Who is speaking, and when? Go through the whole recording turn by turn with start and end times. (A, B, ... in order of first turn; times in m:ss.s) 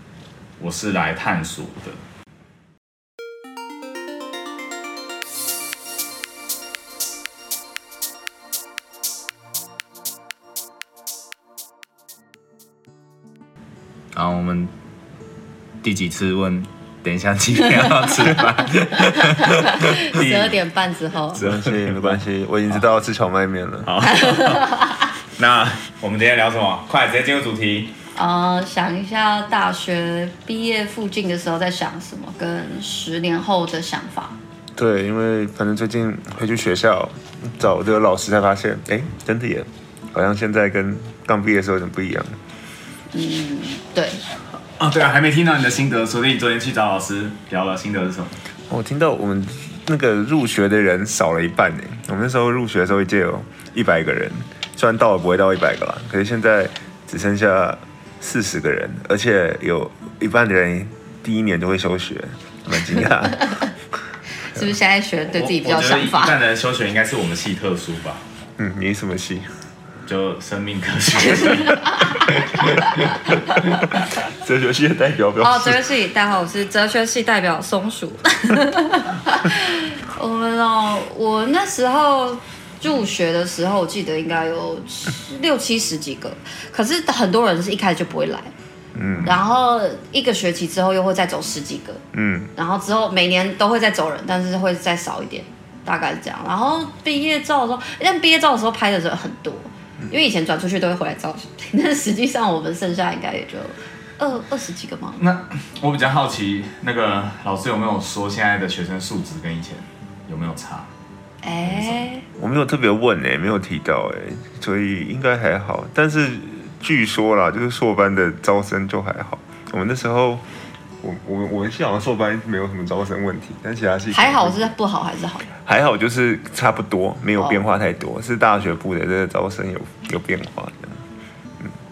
0:00.6-0:02.0 A
0:14.1-0:14.7 A
0:15.8-0:20.5 A
0:19.0-0:21.4 B
0:20.2-0:20.5 C
0:21.3-0:24.0 C
0:21.5-0:22.1 A
0:23.8-0:27.9 A
0:24.0-0:25.0 B
0:28.2-0:34.4 B
0:34.8-0:42.4 C
0:43.1-0:44.2 B
0:44.8-0:48.4 A
0:48.7-1:03.6 C
1:03.0-1:03.7 B
1:04.4-1:06.4 B
1:05.3-1:08.2 A
1:08.6-1:09.5 C
1:10.1-1:11.8 A
1:11.4-1:13.3 B
1:12.6-1:15.8 C
1:15.4-1:28.5 B
1:29.0-1:29.4 C
1:29.2-1:32.0 B
1:32.1-1:32.5 C
1:32.6-1:45.2 B
1:45.2-1:50.9 A
1:51.4-1:52.2 B
1:51.6-2:00.4 C
2:01.0-2:04.7 C
2:04.1-2:05.5 B
2:05.6-2:11.0 C